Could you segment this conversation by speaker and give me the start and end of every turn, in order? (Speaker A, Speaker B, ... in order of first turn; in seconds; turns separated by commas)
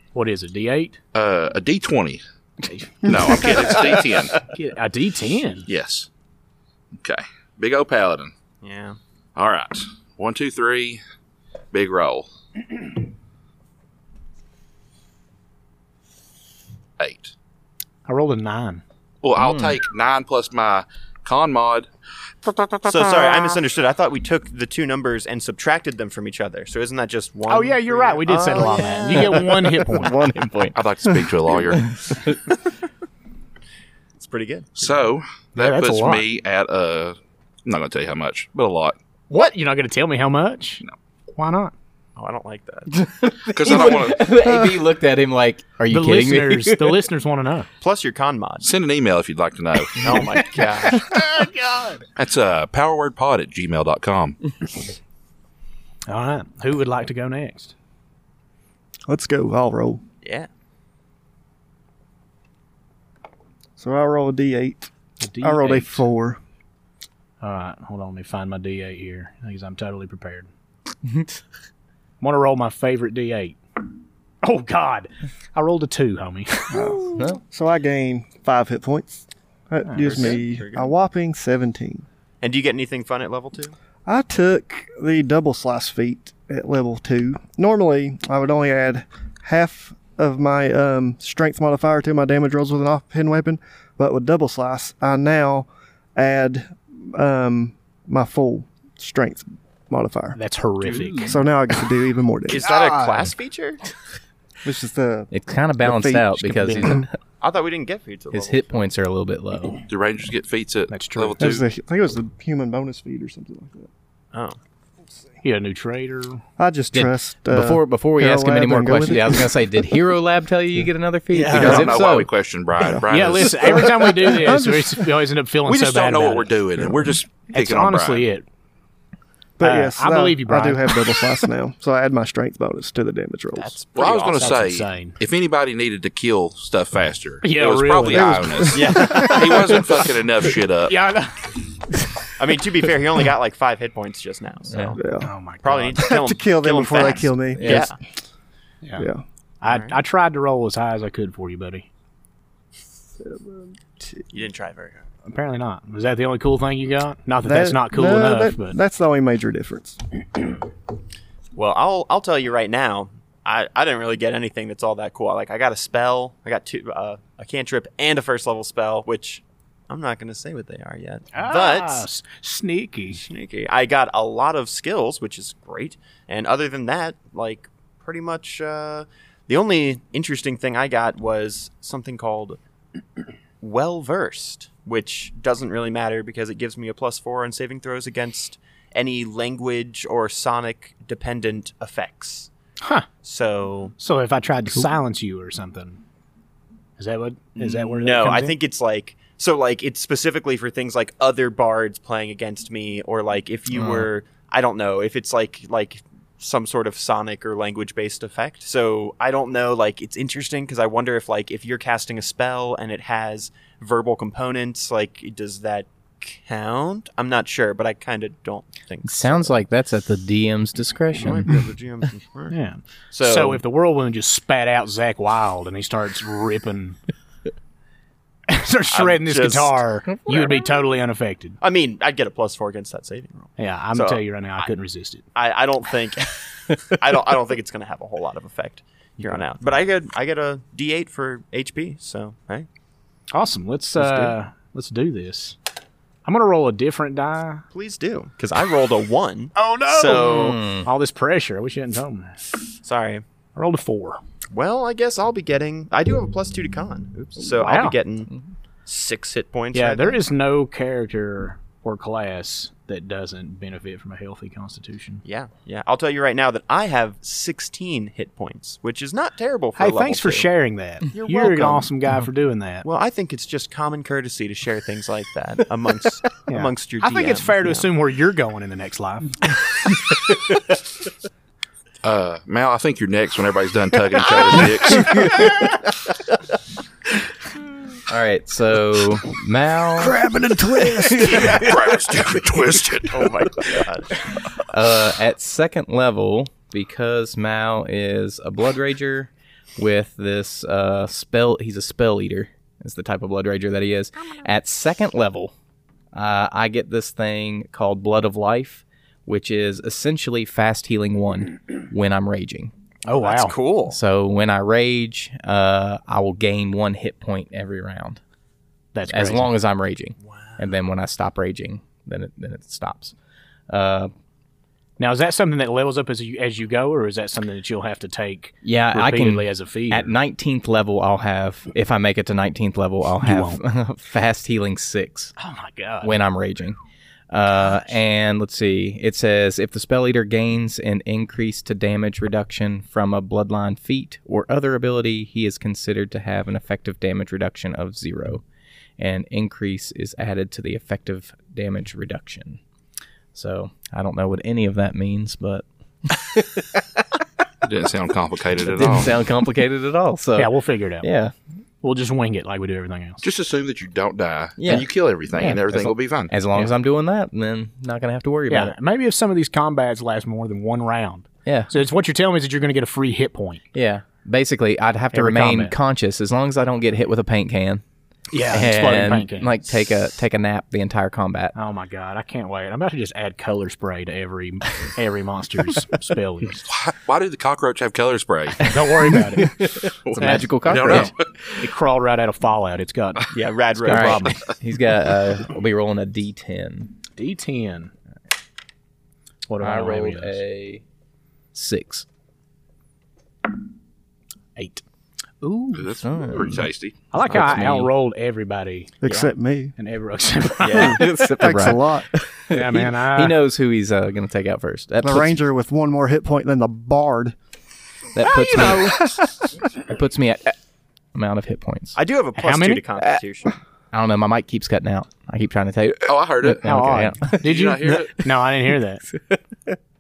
Speaker A: 0.1-1.0, Speaker B: 1.1-2.2, Speaker A: 2.6-3.8, Speaker B: 3.0-4.4, Speaker A: 4.4-5.7, Speaker B: 5.7-6.1, Speaker B: 7.0-8.3, Speaker C: 8.6-9.0, Speaker B: 9.3-11.0, Speaker B: 11.7-12.3, Speaker B: 17.0-17.3, Speaker A: 18.1-18.8, Speaker B: 19.2-21.9, Speaker D: 19.4-19.8, Speaker C: 22.8-29.8, Speaker A: 27.5-30.1, Speaker D: 29.1-30.8, Speaker B: 30.7-31.9, Speaker D: 31.8-32.4, Speaker C: 34.1-35.0, Speaker B: 34.8-39.0, Speaker A: 35.5-36.2, Speaker A: 39.3-40.8, Speaker A: 41.4-41.7, Speaker C: 42.1-43.1, Speaker D: 43.0-47.0, Speaker B: 43.5-44.3, Speaker E: 44.4-44.8, Speaker A: 45.9-47.7, Speaker C: 47.8-48.7, Speaker B: 48.6-50.2, Speaker C: 50.0-51.1, Speaker A: 50.4-52.0, Speaker B: 52.1-54.4, Speaker A: 56.1-57.7, Speaker E: 59.1-60.0, Speaker C: 60.2-60.5, Speaker E: 63.8-66.4, Speaker A: 65.2-66.0, Speaker A: 67.4-70.5, Speaker A: 72.2-73.6, Speaker A: 74.4-77.0, Speaker E: 76.7-82.0, Speaker A: 79.8-80.3, Speaker C: 80.0-80.9, Speaker C: 82.4-83.8, Speaker E: 84.0-100.4, Speaker A: 100.3-101.4, Speaker E: 101.2-103.3, Speaker C: 102.5-103.8, Speaker E: 104.6-107.0, Speaker D: 105.3-107.1, Speaker A: 106.6-106.9, Speaker C: 107.4-108.8, Speaker D: 108.3-109.8, Speaker B: 109.8-111.6, Speaker A: 110.9-111.5, Speaker E: 111.4-113.9, Speaker C: 114.3-114.6, Speaker A: 115.4-116.4, Speaker E: 116.6-119.6, Speaker D: 116.9-122.3, Speaker A: 121.3-121.9, Speaker B: 121.5-123.8, Speaker E: 122.8-125.1, Speaker A: 123.1-126.5, Speaker B: 125.7-128.2, Speaker A: 127.5-128.4, Speaker E: 129.6-133.7, Speaker A: 129.6-131.0, Speaker C: 133.6-134.5, Speaker B: 133.9-140.9, Speaker A: 134.3-135.2, Speaker A: 137.4-138.6, Speaker E: 138.1-139.9, Speaker C: 138.7-139.8, Speaker A: 140.9-141.5, Speaker C: 142.4-145.0, Speaker E: 144.9-145.3, Speaker A: 145.2-146.0, Speaker C: 145.6-147.9, Speaker E: 146.0-147.9, Speaker D: 147.5-147.8, Speaker A: 148.8-149.1, Speaker E: 149.0-149.2, Speaker A: 149.6-151.9, Speaker C: 149.7-150.0, Speaker E: 153.2-154.2, Speaker C: 154.3-155.1, Speaker A: 155.2-158.8, Speaker E: 157.4-160.0, Speaker C: 161.6-172.1, Speaker A: 171.3-173.2, Speaker C: 173.2-182.6, Speaker C: 183.6-192.5, Speaker A: 192.8-193.1, Speaker C: 193.2-193.9, Speaker A: 194.0-196.0, Speaker A: 197.0-198.6, Speaker C: 197.6-219.6, Speaker A: 203.8-204.0, Speaker D: 219.0-221.6, Speaker C: 221.1-222.6, Speaker A: 222.5-227.0, Speaker C: 223.1-223.6, Speaker A: 228.5-231.6, Speaker C: 228.9-229.8, Speaker C: 231.6-234.6, Speaker A: 233.6-235.2, Speaker C: 235.3-242.7, Speaker A: 243.3-245.6, Speaker C: 244.0-244.3, Speaker A: 246.2-247.6, Speaker C: 247.7-250.6, Speaker A: 249.5-252.4, Speaker D: 250.1-250.9, Speaker C: 252.8-253.2, Speaker A: 253.5-254.2, Speaker C: 254.5-258.3, Speaker A: 257.6-257.9, Speaker C: 258.9-260.2, Speaker A: 259.7-265.2, Speaker C: 265.2-270.5, Speaker A: 269.8-272.9, Speaker C: 271.1-271.9, Speaker C: 272.8-277.9, Speaker A: 276.5-279.4, Speaker B: 282.0-285.4, Speaker D: 285.0-285.5, Speaker D: 288.1-290.2, Speaker E: 290.0-291.9, Speaker A: 291.0-291.7, Speaker B: 291.4-293.4, Speaker C: 293.1-294.2, Speaker D: 294.7-305.5, Speaker D: 306.1-312.7, Speaker A: 313.0-313.5, Speaker C: 313.2-314.0, Speaker D: 313.9-318.2, Speaker A: 318.9-319.5, Speaker D: 319.1-323.1, Speaker C: 320.2-320.7, Speaker D: 323.7-324.1, Speaker A: 325.0-330.1, Speaker D: 328.6-335.3, Speaker A: 333.2-333.6, Speaker A: 335.4-336.2, Speaker D: 336.0-336.8, Speaker D: 337.3-348.4, Speaker D: 349.0-352.6, Speaker D: 353.3-356.8, Speaker B: 357.6-359.1, Speaker D: 358.7-361.3, Speaker A: 360.4-361.1, Speaker A: 361.8-363.2, Speaker B: 363.2-366.3, Speaker D: 364.6-368.8, Speaker A: 368.5-373.6, Speaker D: 371.4-371.7, Speaker D: 373.7-377.8, Speaker A: 375.1-375.8, Speaker A: 378.3-379.7, Speaker D: 378.5-381.5, Speaker A: 381.5-386.6, Speaker B: 386.6-388.6, Speaker A: 388.6-389.6, Speaker D: 388.6-391.1, Speaker B: 390.0-391.3, Speaker A: 390.2-394.4, Speaker C: 393.3-394.4, Speaker D: 393.9-397.0, Speaker A: 397.2-397.9, Speaker A: 399.5-400.4, Speaker D: 399.6-400.8, Speaker D: 401.5-402.0, Speaker A: 404.6-404.8, Speaker D: 405.4-407.9, Speaker B: 405.7-407.0, Speaker A: 407.1-408.9, Speaker E: 409.0-409.7, Speaker C: 409.1-409.3, Speaker A: 409.8-411.0, Speaker C: 410.6-411.0, Speaker D: 410.7-415.4, Speaker E: 411.1-412.1, Speaker A: 412.5-413.4, Speaker E: 415.0-417.4, Speaker D: 418.1-420.6, Speaker A: 418.2-418.9, Speaker D: 421.1-422.0, Speaker C: 421.9-423.6, Speaker A: 422.4-422.8, Speaker D: 423.9-427.4, Speaker B: 426.1-426.6, Speaker A: 426.6-429.1, Speaker B: 427.3-428.1